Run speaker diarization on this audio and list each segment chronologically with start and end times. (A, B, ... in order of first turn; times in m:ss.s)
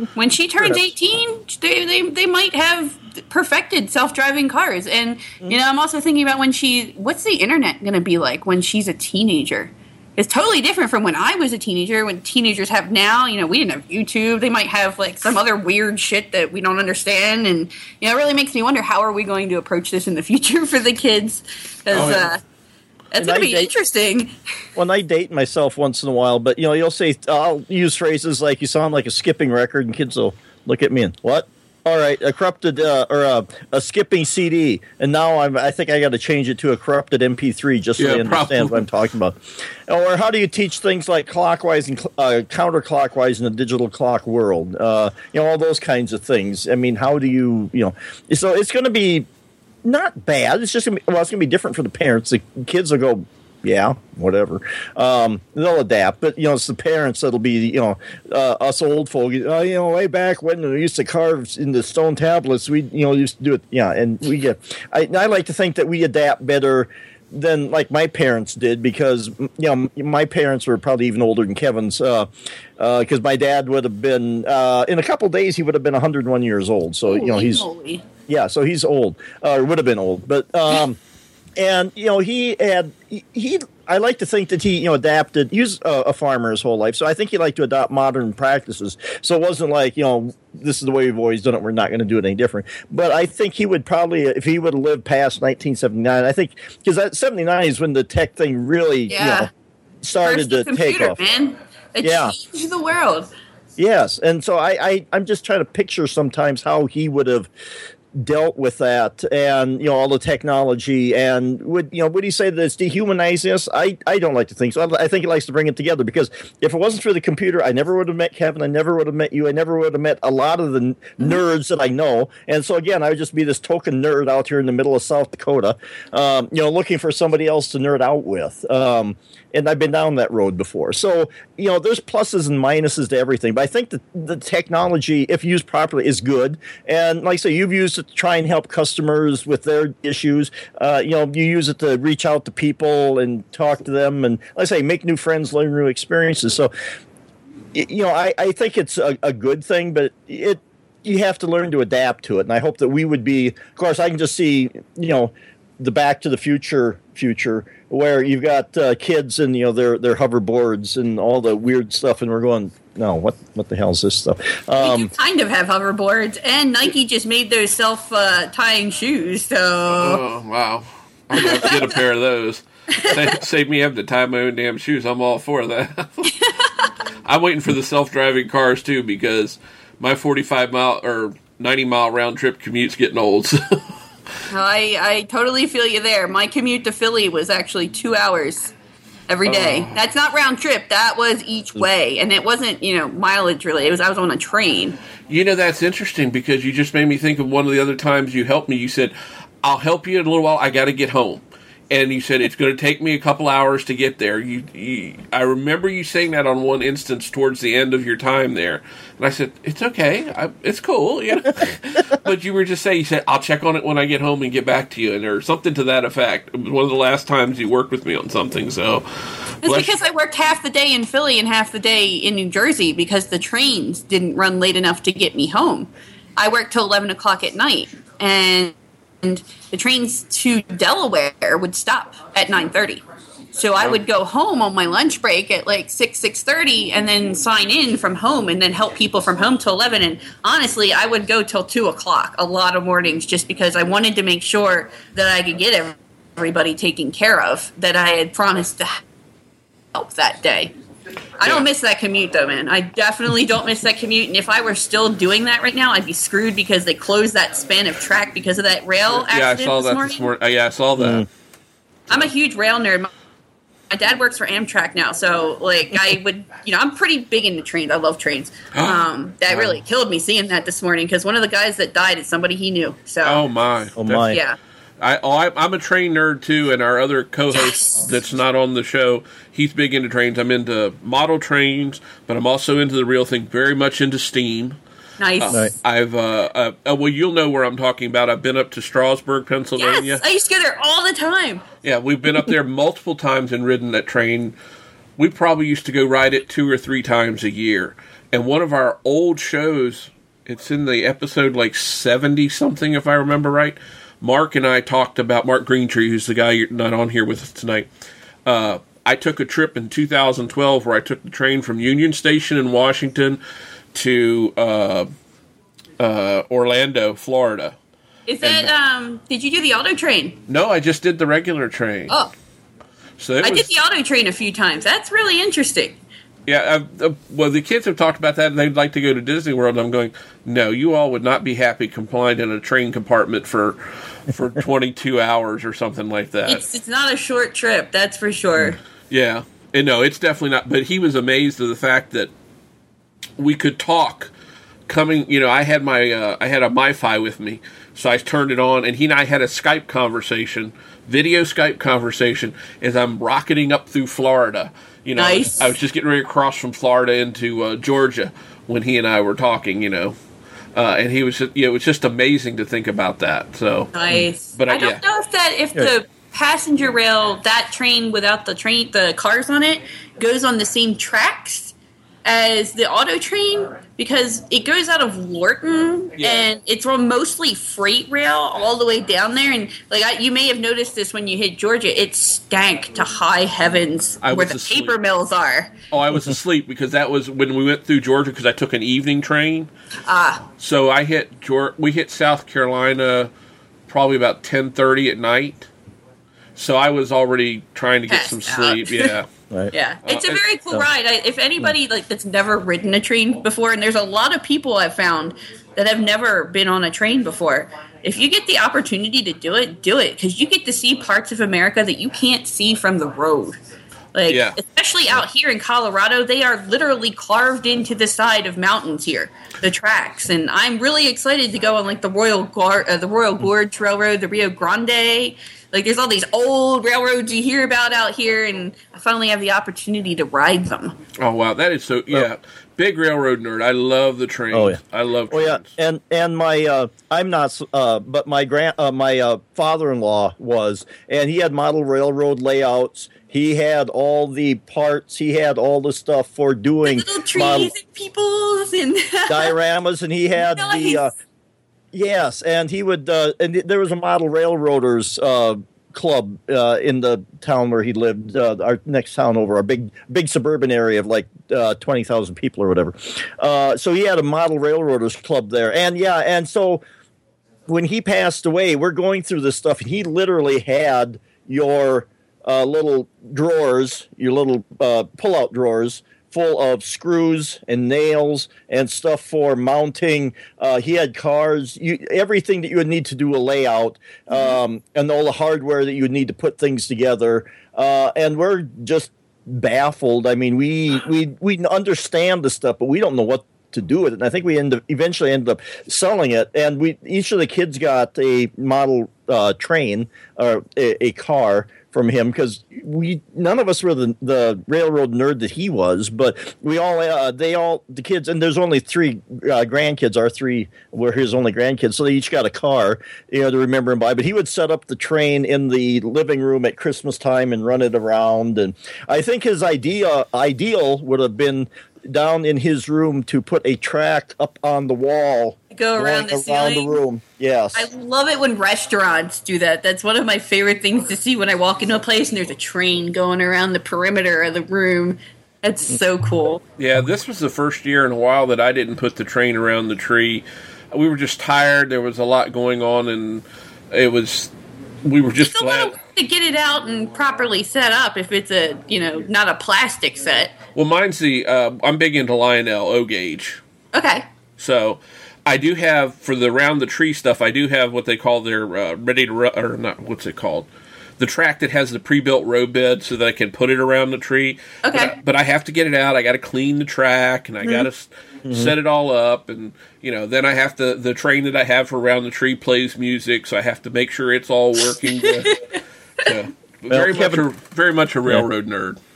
0:00.1-0:22.4 A
0:21.9-0:22.3 B
0:23.1-0:24.3 A
0:23.2-0:23.7 C
0:24.8-0:39.4 C
0:38.0-0:38.9 B
0:39.9-0:49.3 C
0:49.8-1:17.7 C
1:17.0-1:18.0 A
1:18.3-1:21.0 C
1:21.6-1:39.5 C
1:39.1-1:39.5 A
1:40.0-1:41.2 C
1:40.2-1:43.3 A
1:42.0-1:42.3 C
1:43.8-1:47.5 C
1:48.1-2:26.7 C
2:27.7-2:45.1 C
2:44.8-2:50.2 A
2:50.0-2:56.3 B
2:51.4-2:51.7 A
2:52.9-2:53.2 A
2:56.2-2:56.9 A
2:57.2-3:03.8 B
3:04.5-3:08.7 A
3:09.3-3:15.0 A
3:09.4-3:09.9 B
3:15.3-3:39.9 B
3:39.6-3:53.0 A
3:53.5-4:09.0 A
4:09.9-4:10.7 A
4:11.4-4:20.3 A
4:19.2-4:21.2 B
4:21.0-4:21.3 C
4:22.1-4:23.1 A
4:23.9-4:33.4 A
4:28.7-4:29.8 B
4:33.2-4:34.4 B
4:34.0-4:34.4 C
4:34.3-4:34.6 A
4:35.0-4:44.8 B
4:37.5-4:37.9 A
4:45.2-4:45.6 A
4:45.4-4:50.2 B
4:49.8-4:51.6 A
4:51.8-4:54.5 B
4:55.2-5:07.9 B
5:08.4-5:13.4 B
5:13.9-5:15.1 B
5:16.0-5:17.8 B
5:18.3-5:20.4 A
5:18.4-5:18.7 B
5:20.5-5:22.1 B
5:23.2-5:23.7 B
5:23.4-5:26.0 A
5:26.5-5:36.6 B
5:36.5-5:38.8 A
5:39.1-5:42.3 B
5:43.4-5:44.3 B
5:44.9-6:00.2 B
5:55.2-5:55.7 A
6:00.7-6:03.9 B
6:03.9-6:25.7 A
6:04.5-6:05.0 B
6:24.2-6:25.0 B
6:25.9-6:29.7 B
6:30.0-6:30.4 A
6:30.6-6:33.3 B
6:33.9-6:35.7 B
6:36.6-6:39.3 B
6:38.1-6:39.1 A
6:39.7-6:53.6 A
6:40.0-6:40.4 B
6:54.1-7:11.0 A
6:54.3-6:54.6 B
7:11.2-7:15.7 B
7:14.5-7:14.8 C
7:15.3-7:27.7 C
7:26.8-7:29.5 A
7:29.3-7:31.1 C
7:30.4-7:31.1 A
7:31.9-7:46.8 C
7:47.7-8:47.9 C
8:45.7-8:47.0 A
8:47.7-8:56.6 A
8:56.8-9:04.5 B
9:05.0-9:06.0 B
9:05.5-9:10.5 A
9:10.7-9:13.6 B
9:13.9-9:14.2 A
9:14.6-9:20.7 B
9:21.2-9:35.6 B
9:24.8-9:25.1 A
9:28.5-9:28.7 C
9:34.9-9:35.8 A
9:36.2-9:39.0 B
9:36.9-9:37.4 C